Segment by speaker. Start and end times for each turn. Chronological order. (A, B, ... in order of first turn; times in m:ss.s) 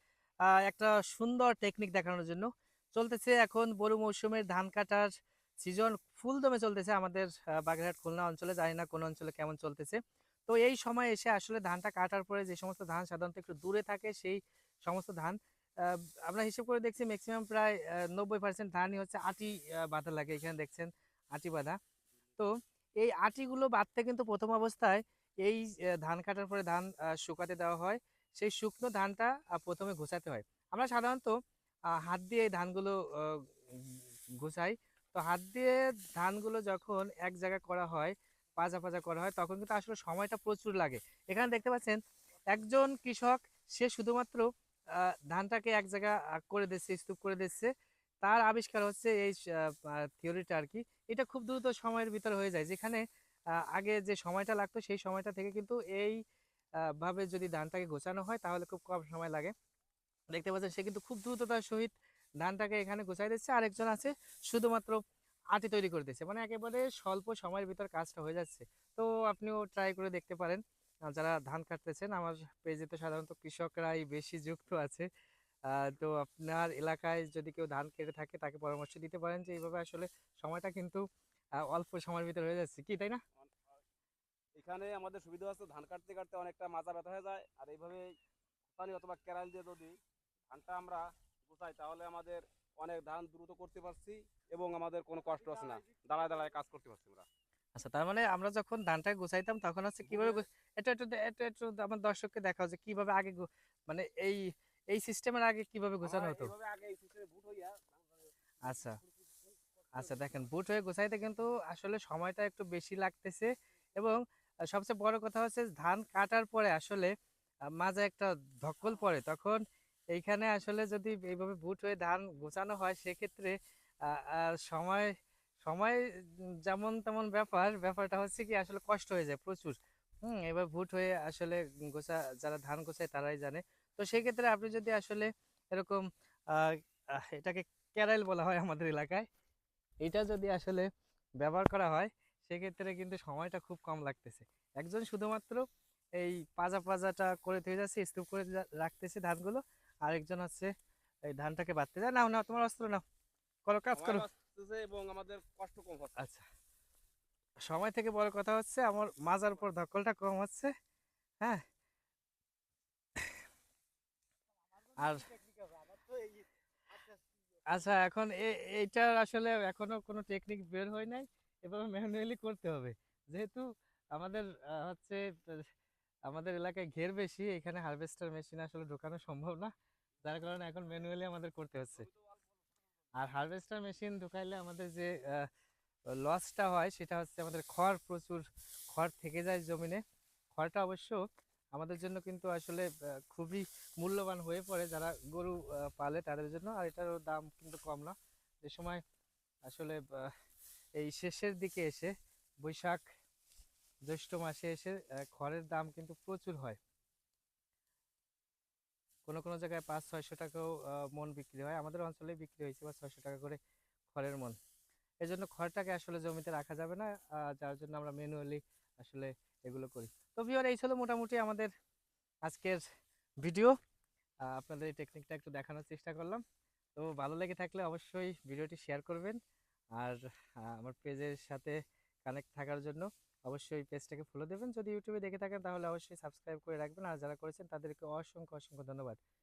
0:00.5-0:05.1 A
0:05.6-0:21.8 A
0:22.4-0:31.3 A
0:32.0-0:42.0 A
0:42.5-0:44.4 A
0:45.0-0:47.7 A
0:48.2-0:53.0 A
0:53.6-0:56.2 A
0:56.9-0:59.5 A
1:00.3-1:05.0 A
1:05.5-1:15.1 A
1:15.7-1:21.0 A
1:21.6-1:23.2 A
1:24.6-1:28.0 B
1:28.7-1:30.0 B
1:30.5-1:37.3 B
1:37.8-1:44.4 A
1:40.0-1:40.4 B
1:44.9-1:46.5 A
1:46.0-1:48.0 B
1:48.6-1:49.0 A
1:50.0-1:57.1 A
1:57.8-1:59.6 A
2:00.1-2:05.1 A
2:05.6-2:19.3 A
2:20.0-2:20.9 A
2:21.4-2:25.6 A
2:26.2-2:30.7 A
2:31.3-2:33.0 A
2:33.7-2:34.2 A
2:34.0-2:36.3 B
2:36.2-2:36.4 A
2:37.7-2:40.7 A
2:45.0-2:45.3 A
2:47.7-2:55.7 A
2:56.3-2:59.7 A
3:00.2-3:02.1 A
3:03.2-3:05.5 A
3:06.2-3:10.0 A
3:10.5-3:11.2 A
3:11.7-3:19.0 A
3:19.7-3:20.3 A
3:21.0-3:23.0 A
3:24.0-3:26.8 A
3:29.3-3:33.6 A
3:34.1-3:34.6 A
3:35.2-3:41.7 A
3:42.4-3:42.8 A
3:43.4-3:43.7 A
3:44.5-3:46.4 A
3:47.0-3:49.4 A
3:50.0-3:59.2 A